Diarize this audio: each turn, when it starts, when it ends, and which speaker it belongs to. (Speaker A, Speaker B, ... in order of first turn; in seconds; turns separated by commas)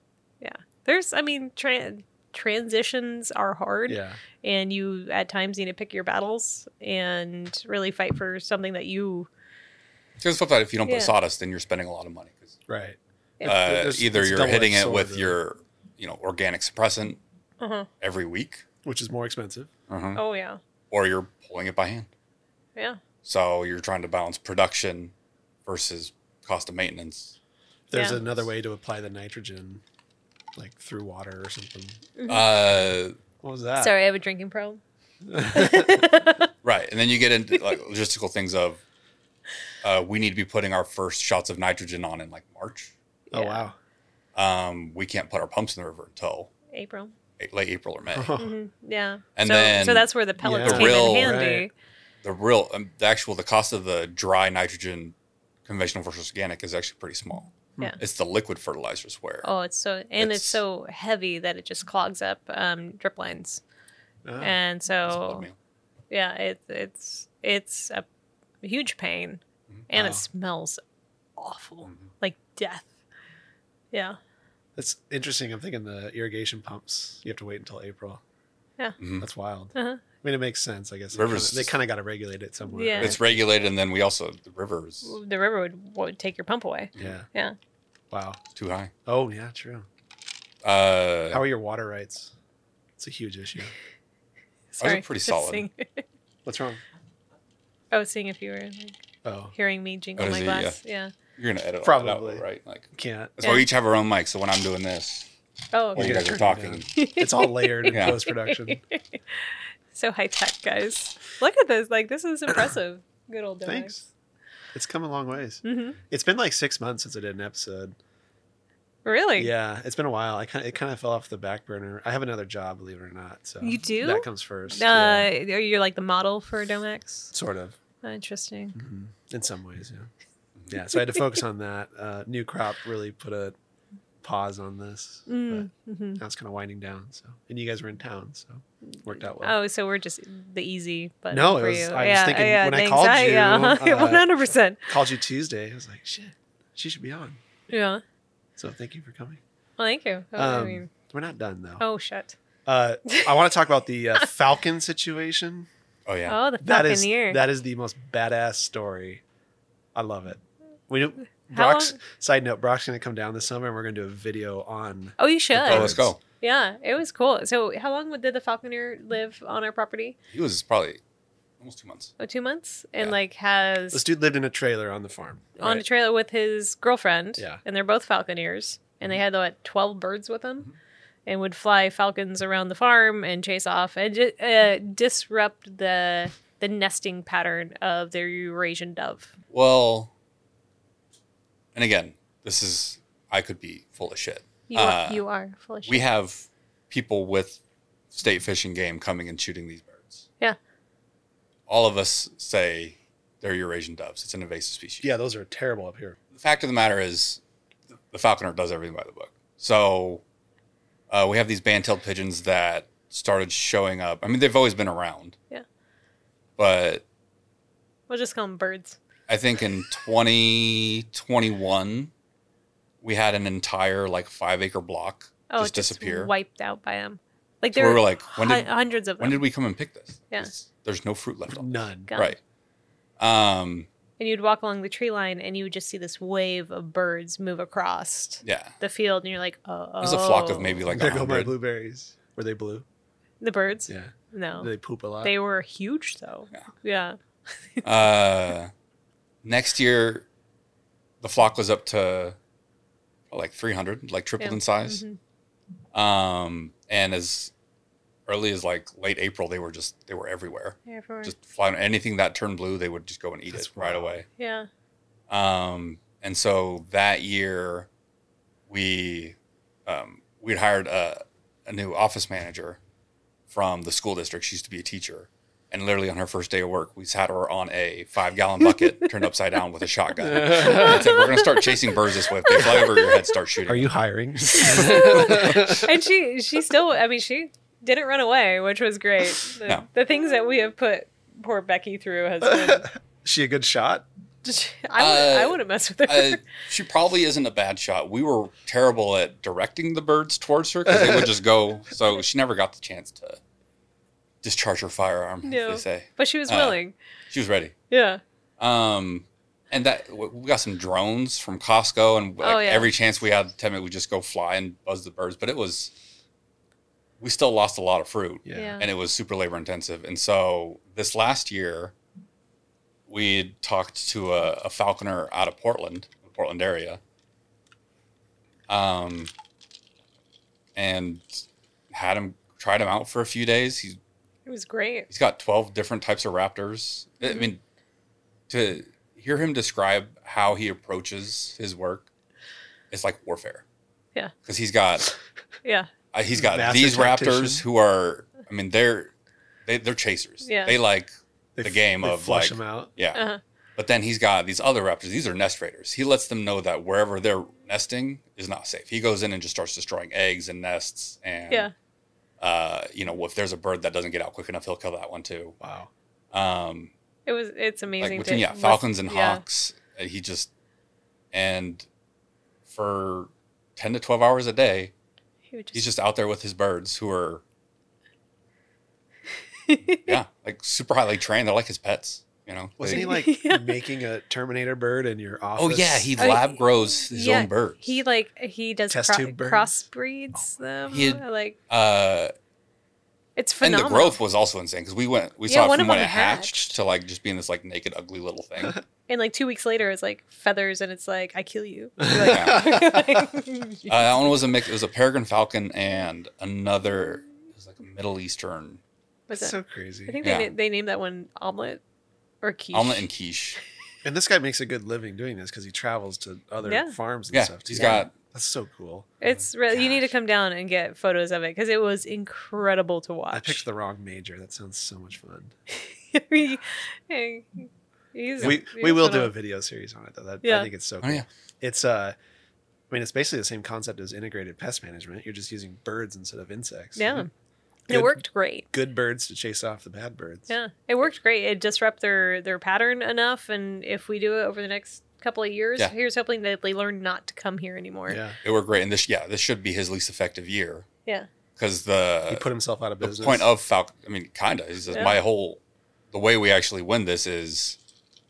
Speaker A: 0.4-9.3, Speaker B: 3.9-4.2, Speaker C: 10.2-12.6, Speaker A: 10.9-11.1, Speaker B: 12.7-15.4, Speaker C: 13.4-17.2, Speaker A: 17.6-17.9, Speaker C: 18.0-18.6, Speaker B: 18.8-19.7, Speaker C: 19.9-20.2, Speaker A: 20.1-20.6, Speaker C: 20.9-22.1, Speaker C: 23.2-25.1, Speaker C: 25.7-27.4, Speaker B: 27.9-29.8, Speaker A: 27.9-28.2, Speaker B: 30.6-32.0, Speaker A: 32.2-32.5, Speaker C: 32.3-33.2, Speaker B: 33.4-33.9, Speaker A: 33.8-34.8, Speaker B: 35.3-36.1, Speaker A: 35.5-36.5, Speaker C: 36.6-38.8, Speaker C: 39.8-42.9, Speaker A: 43.3-43.6, Speaker B: 43.3-43.8, Speaker C: 44.4-46.5, Speaker A: 46.7-47.1, Speaker C: 47.4-48.4, Speaker B: 48.1-48.5, Speaker A: 48.4-51.7, Speaker C: 49.4-50.1, Speaker B: 50.4-51.7, Speaker C: 50.6-51.4, Speaker C: 52.2-55.1, Speaker C: 55.7-59.5, Speaker A: 59.4-63.6, Speaker C: 60.2-60.6, Speaker B: 64.2-64.5, Speaker A: 64.4-65.5, Speaker C: 65.1-65.6, Speaker A: 66.1-68.1, Speaker A: 68.6-70.8, Speaker B: 69.9-70.2, Speaker A: 71.4-72.9, Speaker A: 73.9-74.2, Speaker B: 74.8-78.2, Speaker C: 79.0-79.3, Speaker B: 79.2-83.4, Speaker A: 79.7-80.0, Speaker C: 81.1-81.8, Speaker A: 82.7-83.2, Speaker C: 83.0-85.2, Speaker A: 85.0-87.6, Speaker B: 87.0-87.3, Speaker B: 88.1-88.4, Speaker C: 88.5-88.9, Speaker B: 89.1-89.9, Speaker C: 90.6-91.4, Speaker B: 91.3-92.3, Speaker B: 93.0-93.7, Speaker A: 94.7-96.0, Speaker C: 94.8-95.7, Speaker B: 96.5-96.8, Speaker A: 97.9-99.0, Speaker B: 99.2-99.5, Speaker A: 99.5-101.1, Speaker C: 100.2-100.8, Speaker C: 101.4-105.3, Speaker B: 101.8-103.3, Speaker A: 105.7-106.3, Speaker C: 105.9-106.9, Speaker B: 106.0-108.8, Speaker A: 106.9-109.2, Speaker C: 107.9-108.2, Speaker A: 109.9-114.0, Speaker B: 113.7-114.1, Speaker B: 114.7-118.0, Speaker A: 115.6-116.0, Speaker A: 119.0-119.5, Speaker B: 119.4-125.3, Speaker A: 123.6-127.3, Speaker B: 127.3-127.8, Speaker A: 128.0-128.8, Speaker B: 128.8-130.1, Speaker B: 130.7-133.6, Speaker B: 134.2-139.6, Speaker A: 135.3-136.2, Speaker A: 139.4-144.9, Speaker B: 141.3-144.3, Speaker B: 144.9-147.4, Speaker A: 147.7-148.0, Speaker B: 148.6-149.4, Speaker A: 149.8-150.9, Speaker B: 150.4-151.8, Speaker A: 151.8-152.4, Speaker B: 152.7-155.7, Speaker C: 156.1-156.4, Speaker A: 156.3-157.4, Speaker B: 156.6-159.2, Speaker B: 159.9-166.1, Speaker A: 161.5-162.0, Speaker A: 165.2-170.2, Speaker C: 165.6-166.2, Speaker C: 170.3-171.0, Speaker C: 171.6-172.1, Speaker A: 172.2-174.0, Speaker B: 173.9-175.6, Speaker A: 175.6-180.7, Speaker A: 181.3-189.3, Speaker C: 189.5-190.1, Speaker C: 191.8-195.2, Speaker A: 194.7-196.0, Speaker C: 195.9-197.6, Speaker C: 198.1-200.3, Speaker C: 201.7-205.1, Speaker B: 205.0-206.2, Speaker C: 206.3-207.4, Speaker C: 208.1-210.2, Speaker C: 211.1-215.4, Speaker C: 216.6-217.0, Speaker A: 218.1-219.0, Speaker C: 219.3-222.1, Speaker C: 223.0-226.3, Speaker A: 225.5-229.4, Speaker C: 227.8-232.4, Speaker B: 231.5-232.1, Speaker A: 232.1-232.4, Speaker C: 233.2-233.9, Speaker A: 234.2-240.8, Speaker C: 238.4-238.8, Speaker C: 240.0-241.5, Speaker B: 240.9-242.9, Speaker A: 243.4-244.7, Speaker B: 243.9-245.3, Speaker A: 245.2-247.2, Speaker C: 247.8-248.7, Speaker C: 249.4-250.3, Speaker C: 251.2-252.4, Speaker C: 253.3-255.0, Speaker A: 254.4-255.2, Speaker C: 255.9-257.5, Speaker C: 258.3-264.3, Speaker A: 260.9-261.3, Speaker B: 263.5-264.2, Speaker A: 264.4-264.7, Speaker C: 265.3-267.9, Speaker C: 268.7-272.8, Speaker C: 273.5-283.9, Speaker B: 280.2-281.2, Speaker A: 280.6-281.7, Speaker A: 282.4-283.1, Speaker B: 283.7-285.9, Speaker C: 284.6-285.8, Speaker A: 284.6-292.9, Speaker B: 292.4-294.1, Speaker A: 294.4-296.4, Speaker C: 295.0-303.4, Speaker C: 304.4-306.8, Speaker A: 305.4-307.0, Speaker C: 307.3-307.7, Speaker A: 307.9-308.2, Speaker C: 308.6-315.9, Speaker A: 312.4-312.9, Speaker C: 317.2-321.9, Speaker B: 318.4-318.8, Speaker A: 318.5-318.9, Speaker C: 323.1-327.0, Speaker C: 328.7-329.3, Speaker C: 330.8-334.0, Speaker A: 334.5-335.1, Speaker C: 335.1-337.6, Speaker C: 338.5-342.1, Speaker C: 342.9-343.6, Speaker C: 344.4-345.1, Speaker A: 345.6-345.9, Speaker C: 346.1-349.1, Speaker B: 346.4-347.6, Speaker C: 349.7-351.1, Speaker A: 350.4-350.8, Speaker B: 351.6-352.9, Speaker C: 351.6-353.2, Speaker A: 353.1-353.4, Speaker C: 353.8-361.7, Speaker C: 362.4-365.6, Speaker B: 365.6-365.9, Speaker C: 366.3-366.9, Speaker A: 367.3-369.4, Speaker C: 368.0-370.5, Speaker C: 371.3-371.9, Speaker C: 372.7-374.9, Speaker A: 375.5-375.9, Speaker C: 375.7-377.4, Speaker A: 379.7-380.1, Speaker C: 380.1-383.1, Speaker B: 382.8-386.2, Speaker A: 382.9-383.8, Speaker C: 385.6-388.0, Speaker A: 386.2-391.6, Speaker B: 388.9-389.7, Speaker C: 390.9-392.3, Speaker A: 393.4-394.2, Speaker C: 393.6-398.8, Speaker A: 395.5-396.8, Speaker A: 399.1-404.0, Speaker B: 402.1-403.2, Speaker C: 402.2-402.8, Speaker C: 403.9-408.8, Speaker A: 409.3-409.6, Speaker B: 409.3-410.2, Speaker A: 410.1-411.8, Speaker C: 410.2-410.5, Speaker A: 412.4-413.1, Speaker C: 412.7-413.6, Speaker B: 414.0-419.1, Speaker A: 416.7-416.9, Speaker C: 417.3-418.1, Speaker A: 417.8-418.0, Speaker A: 419.2-423.6, Speaker B: 423.3-425.5, Speaker A: 425.7-429.3, Speaker B: 428.4-432.1, Speaker A: 430.4-430.7, Speaker B: 432.9-437.3, Speaker A: 437.0-437.3, Speaker A: 437.9-438.7, Speaker B: 437.9-438.2, Speaker B: 438.7-440.5, Speaker A: 440.5-448.2, Speaker B: 448.1-448.4, Speaker C: 448.4-450.9, Speaker C: 451.6-452.5, Speaker B: 452.3-453.5, Speaker C: 453.0-455.6, Speaker C: 456.1-457.8